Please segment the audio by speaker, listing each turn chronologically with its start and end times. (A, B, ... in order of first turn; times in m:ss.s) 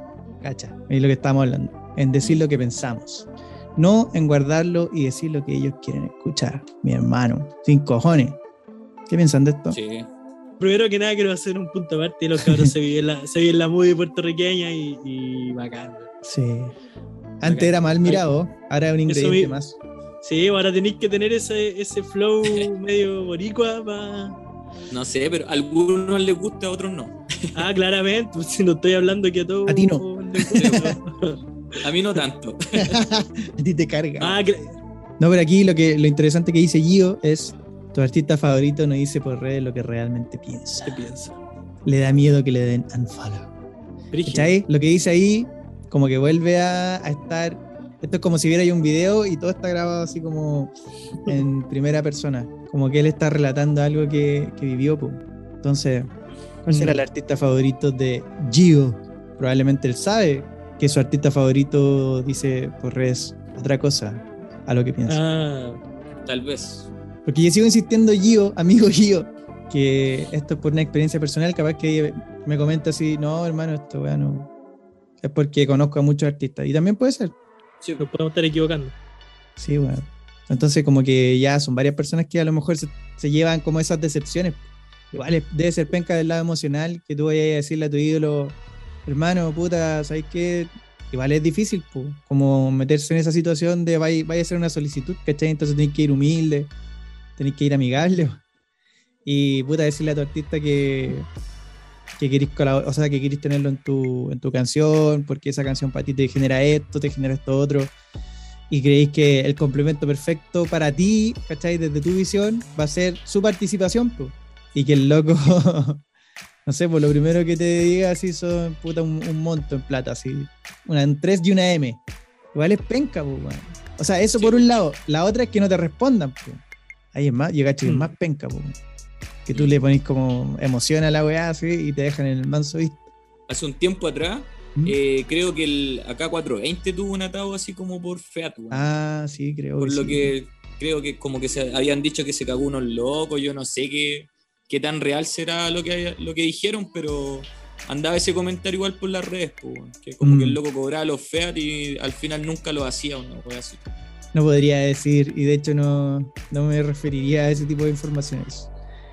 0:00.4-0:08.4 A
0:09.1-0:09.8 A
0:09.7-0:10.1 B
0:10.6-0:16.1 C
0:12.4-0:12.7 A
0:16.2-0:16.7 A
0:17.4-0:19.8 A
0:17.4-0:17.7 B
0:19.1-0:19.6 C
0:20.2-0:24.4 C
0:24.9-0:27.4 B
0:27.5-0:31.4 C
0:29.7-0:30.1 A
0:30.5-0:31.0 B
0:30.6-0:31.0 A
0:31.8-0:33.0 B
0:32.8-0:34.4 A
0:34.2-0:34.8 C
0:35.2-0:41.0 A
0:40.8-0:41.4 C
0:41.8-0:43.5 A
0:44.1-0:44.6 C
0:44.2-0:50.7 A
0:51.2-0:56.1 A
0:56.6-1:05.2 A
0:56.7-0:57.0 C
1:05.1-1:05.8 C
1:06.2-1:06.9 B
1:07.2-1:14.5 A
1:15.2-1:17.3 A
1:18.0-1:18.9 C
1:19.6-1:36.7 A
1:37.4-1:38.4 A
1:39.2-1:41.3 A
1:42.2-1:47.9 A
1:48.7-1:56.0 A
1:56.6-2:02.0 A
2:02.5-2:08.8 A
2:04.3-2:04.7 B
2:09.4-2:13.0 A
2:13.5-2:18.9 B
2:18.7-2:20.3 A
2:19.8-2:33.9 B
2:30.2-2:30.6 A
2:34.3-2:38.7 A